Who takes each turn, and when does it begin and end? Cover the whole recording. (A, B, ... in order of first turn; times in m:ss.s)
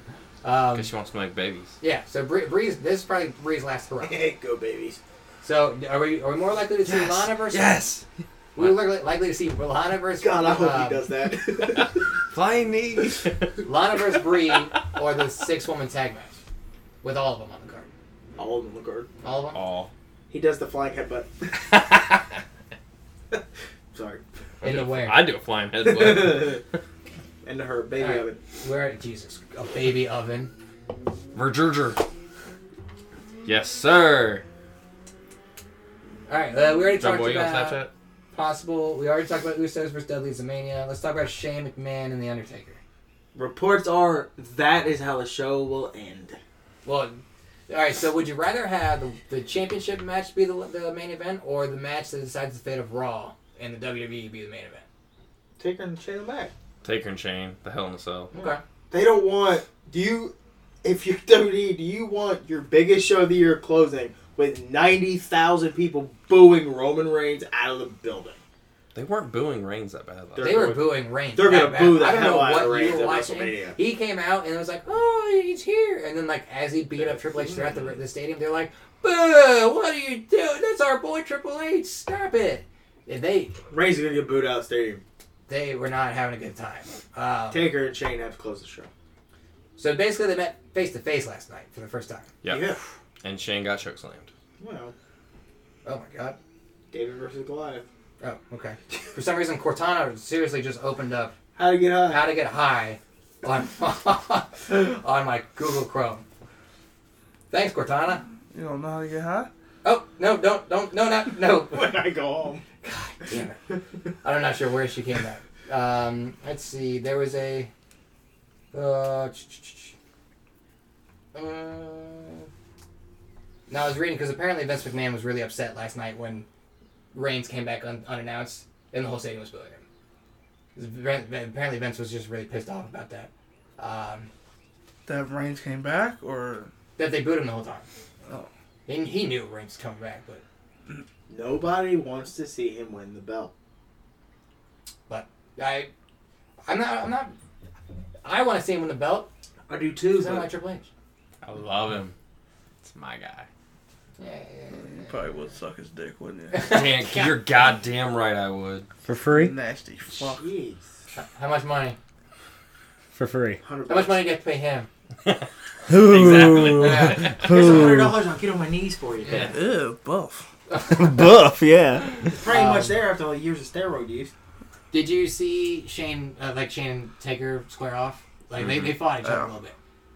0:00.4-0:00.9 A
0:00.8-0:01.8 B
0:01.8-0:04.2 A
0:04.0-0:05.0 C
0:05.4-0:07.8 A
0:07.5-0:08.0 B
0:08.6-0:11.0 A
0:10.2-0:12.0 C
0:11.8-0:13.6 B
0:13.6-0:16.4 A
0:17.0-0:17.9 A
0:18.4-0:19.1 C
0:19.2-0:19.6 A
0:19.5-0:19.9 B
0:20.3-0:21.5 C
0:23.9-0:24.2 C
0:24.6-0:26.8 B
0:24.6-0:25.2 A
0:25.8-0:26.6 C
0:27.4-0:28.4 C
0:28.0-0:30.5 A
0:31.3-0:32.0 B
0:33.4-0:34.4 B
0:36.3-0:37.8 A
0:37.0-0:37.9 B
0:38.3-0:42.8 A
0:43.4-0:46.4 C
0:46.8-0:54.8 A
0:55.6-0:56.5 C
0:56.8-0:58.3 B
0:58.3-0:58.6 A
0:58.4-1:08.4 C
1:08.9-1:10.7 B
1:10.4-1:13.8 C
1:10.4-1:23.6 A
1:17.0-1:17.8 C
1:23.7-1:25.0 C
1:25.5-1:27.7 A
1:27.5-1:28.9 C
1:29.8-1:32.3 A
1:32.4-1:34.3 B
1:32.5-1:32.8 C
1:34.6-1:34.9 C
1:35.8-1:36.4 A
1:36.9-1:37.8 C
1:38.2-1:41.4 A
1:41.6-1:42.3 C
1:42.1-1:46.2 A
1:47.5-1:48.2 A
1:48.5-1:49.5 D
1:49.8-1:51.9 A
1:51.6-1:52.6 C
1:52.8-1:53.6 A
1:54.2-1:57.7 A
1:58.7-1:59.9 A
2:01.3-2:02.5 A
2:03.7-2:06.5 A
2:07.1-2:09.8 A
2:10.8-2:14.3 A
2:15.1-2:16.7 D
2:17.0-2:17.8 A
2:18.9-2:20.4 A
2:21.3-2:23.5 C
2:25.1-2:25.9 A
2:26.7-2:27.3 A
2:28.2-2:29.3 A
2:29.7-2:30.5 C
2:30.2-2:30.9 A
2:31.4-2:32.1 B
2:32.8-2:33.5 B
2:34.2-2:35.2 A
2:34.7-2:36.8 D
2:36.5-2:37.4 A
2:36.7-2:38.9 B
2:39.0-2:39.5 E
2:39.3-2:40.5 D
2:40.2-2:40.9 C
2:41.2-2:42.0 A
2:43.2-2:43.6 E
2:43.6-2:44.2 C
2:43.9-2:44.9 A
2:45.3-2:47.5 B
2:45.9-2:48.2 E
2:46.4-2:47.4 A
2:47.4-2:49.6 C
2:49.3-2:49.6 A
2:49.4-2:50.4 D
2:50.7-2:51.3 A
2:50.9-2:52.3 E
2:52.3-2:54.3 C
2:52.4-2:53.0 A
2:54.9-2:59.7 A
2:58.6-2:58.9 B
2:59.2-2:59.5 D